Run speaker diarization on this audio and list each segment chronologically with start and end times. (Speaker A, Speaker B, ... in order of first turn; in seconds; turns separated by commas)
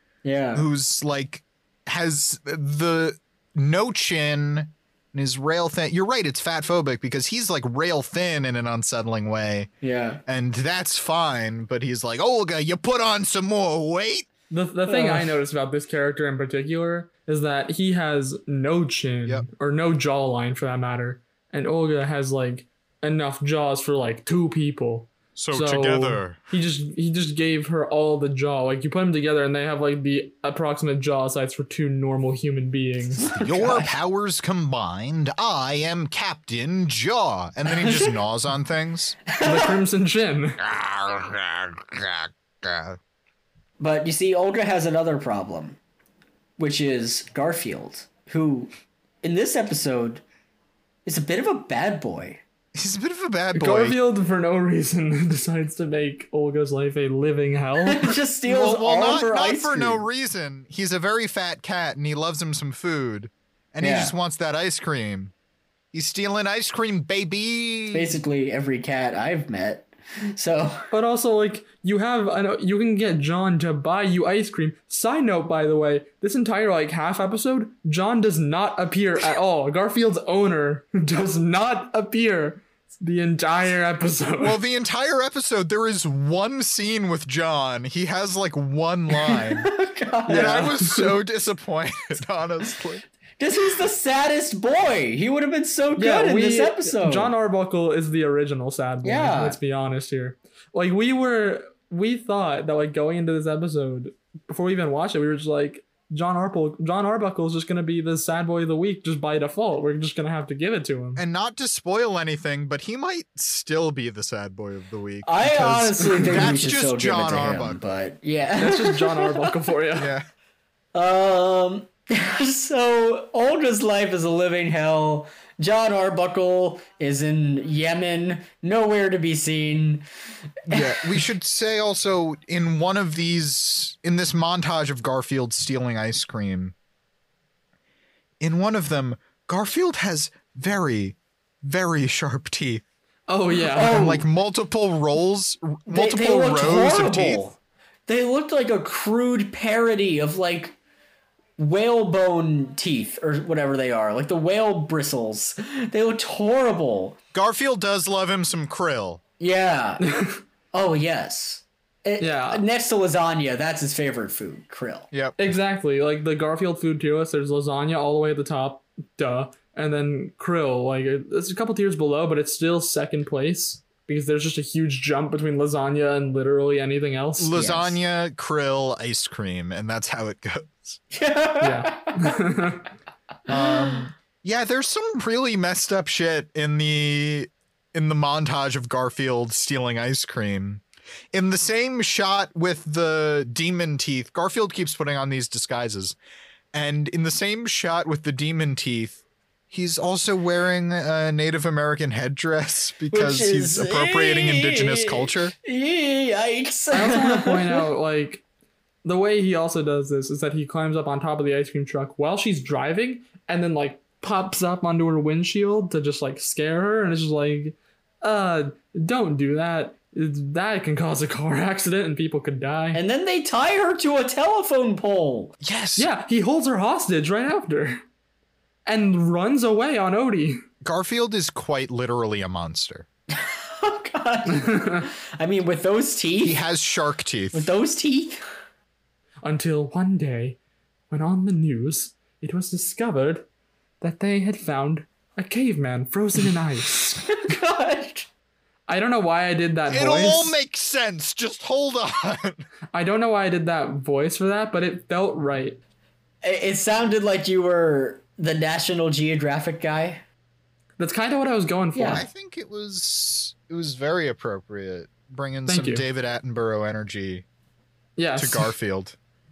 Speaker A: 0.2-0.7, Speaker B: 0.5-9.7, Speaker A: 9.8-10.2, Speaker B: 10.2-14.3, Speaker C: 14.5-33.2, Speaker A: 14.9-15.4, Speaker B: 25.4-26.4, Speaker A: 33.2-33.9, Speaker B: 33.2-39.2, Speaker A: 37.6-38.1, Speaker A: 39.3-39.8, Speaker C: 39.4-40.6, Speaker B: 40.6-43.0, Speaker A: 43.8-45.8, Speaker A: 46.6-48.7, Speaker A: 49.2-50.2, Speaker A: 51.0-52.4, Speaker B: 52.7-54.0, Speaker C: 53.5-58.1, Speaker A: 57.8-60.0, Speaker B: 58.4-65.3, Speaker A: 63.8-64.1, Speaker B: 65.9-68.2, Speaker A: 67.9-70.9, Speaker C: 70.9-84.6, Speaker B: 84.4-89.7, Speaker A: 89.1-90.7, Speaker C: 90.3-91.1, Speaker B: 90.3-93.0, Speaker A: 93.4-97.3, Speaker C: 96.0-111.2, Speaker A: 99.0-99.6, Speaker B: 111.2-117.8, Speaker A: 115.2-119.5, Speaker C: 118.6-120.1, Speaker B: 120.0-120.2, Speaker A: 120.9-130.0, Speaker A: 130.7-131.2, Speaker B: 130.7-136.7, Speaker B: 138.4-142.8, Speaker C: 143.3-144.0, Speaker A: 143.6-144.3, Speaker B: 143.8-147.5, Speaker A: 145.9-147.6, Speaker A: 148.1-150.8, Speaker A: 151.6-157.2, Speaker B: 157.3-159.2, Speaker A: 159.4-160.0, Speaker C: 160.0-160.4, Speaker A: 160.7-165.1, Speaker C: 162.2-162.6, Speaker B: 165.1-165.4, Speaker C: 165.4-177.6, Speaker B: 177.4-181.0, Speaker A: 177.5-177.9, Speaker A: 181.1-182.3, Speaker C: 181.6-182.8, Speaker B: 183.5-196.2, Speaker A: 183.5-184.0, Speaker B: 196.7-205.5, Speaker A: 203.1-207.8, Speaker C: 206.9-208.4, Speaker C: 209.0-223.0, Speaker A: 222.9-225.5, Speaker B: 225.6-226.1, Speaker C: 225.9-228.0, Speaker C: 228.8-230.6, Speaker B: 230.8-233.1, Speaker A: 233.3-236.6, Speaker C: 234.5-235.1, Speaker B: 236.4-237.7, Speaker A: 237.5-238.4, Speaker C: 239.4-240.6, Speaker C: 241.1-243.4, Speaker C: 244.0-247.3, Speaker A: 247.3-248.3, Speaker C: 248.9-250.6, Speaker B: 249.9-252.6, Speaker C: 252.9-255.8, Speaker A: 256.4-260.2, Speaker C: 261.0-262.2, Speaker A: 261.9-262.2, Speaker B: 262.1-267.4, Speaker C: 265.7-266.0, Speaker C: 268.2-268.7, Speaker B: 268.4-269.1